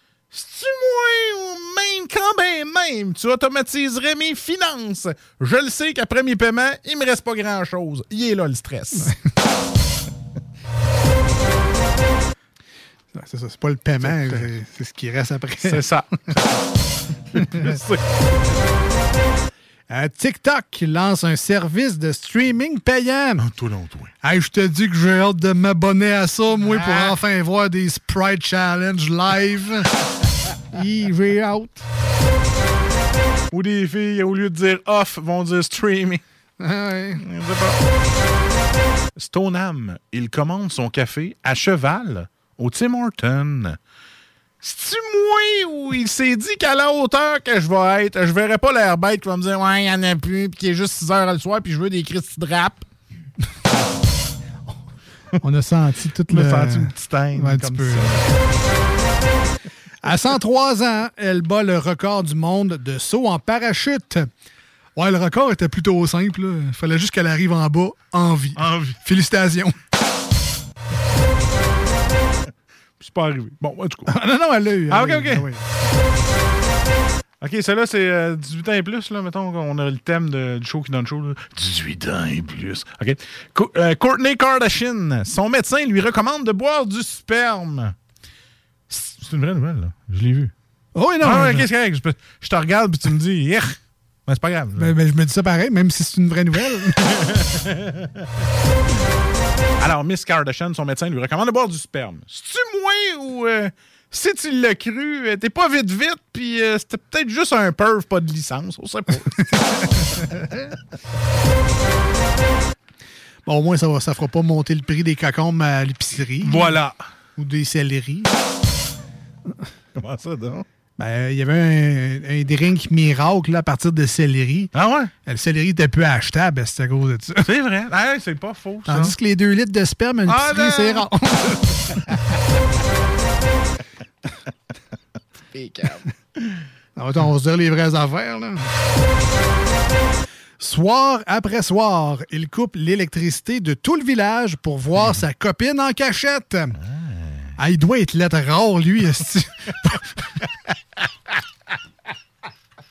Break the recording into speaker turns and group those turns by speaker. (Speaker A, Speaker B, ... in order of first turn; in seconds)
Speaker A: 0.3-9.2, 14.0-14.4, 15.6-16.7, 17.3-18.6, 23.4-24.1, 26.7-27.1, 33.5-36.2, 37.2-37.8, 39.1-43.8, 44.6-52.9, 56.3-58.5, 68.5-69.0, 73.0-74.1, 74.9-75.5, 77.4-87.9, 88.9-90.5, 91.2-94.9, 97.2-97.9, 99.8-109.5, 116.4-117.0, 119.9-120.6, 124.7-125.1, 127.4-129.1, 130.2-131.1, 135.5-136.1, 146.8-147.5
Speaker B: 13.1-15.8, 19.9-23.4, 24.2-30.1, 30.7-31.8, 36.6-37.2, 55.4-58.2, 60.0-64.3, 65.0-69.8, 74.0-75.6, 90.9-91.7, 94.8-97.3, 109.5-110.5, 113.5-116.7, 117.4-118.3, 121.0-124.7, 125.2-127.5, 128.9-132.4, 136.9-138.7, 140.6-146.8, 147.6-150.1